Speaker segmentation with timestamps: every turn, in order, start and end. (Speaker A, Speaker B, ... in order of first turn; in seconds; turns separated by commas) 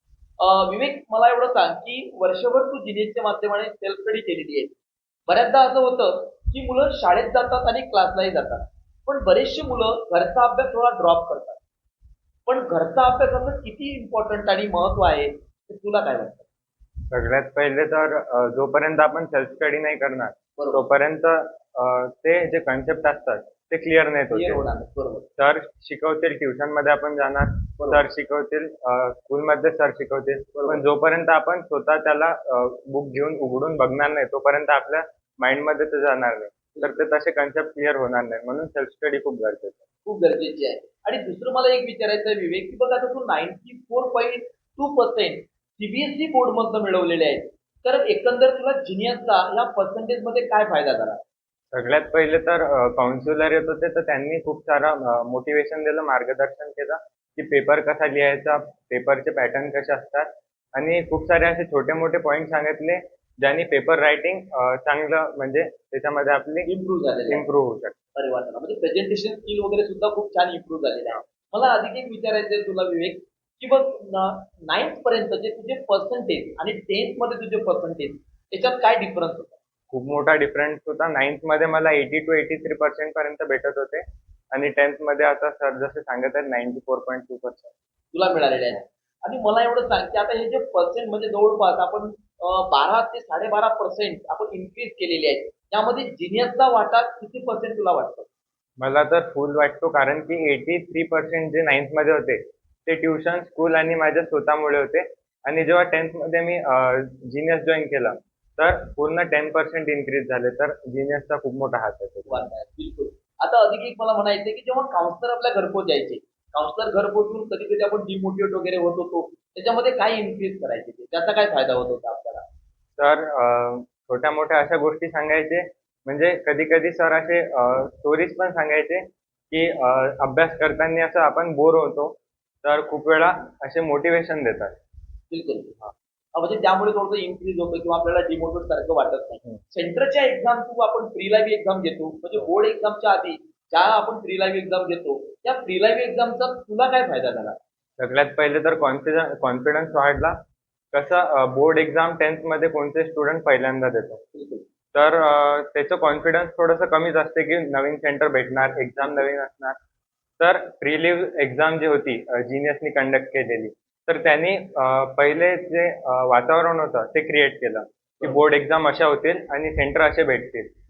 Speaker A: 0.4-4.7, Speaker A: 5.3-11.6, Speaker A: 12.5-16.5, Speaker B: 17.1-24.6, Speaker A: 24.3-25.3, Speaker B: 25.4-39.8, Speaker A: 30.6-30.8, Speaker A: 40.0-51.2, Speaker B: 51.7-66.7, Speaker A: 66.7-67.5, Speaker B: 67.3-68.0, Speaker A: 68.2-79.6, Speaker B: 79.9-87.7, Speaker A: 88.1-98.3, Speaker B: 98.8-112.4, Speaker A: 112.3-122.4, Speaker B: 123.0-134.8, Speaker A: 135.3-135.8, Speaker A: 136.3-147.6, Speaker B: 148.0-150.4, Speaker B: 150.9-154.2, Speaker A: 154.4-154.6, Speaker B: 154.9-159.8, Speaker B: 160.4-170.7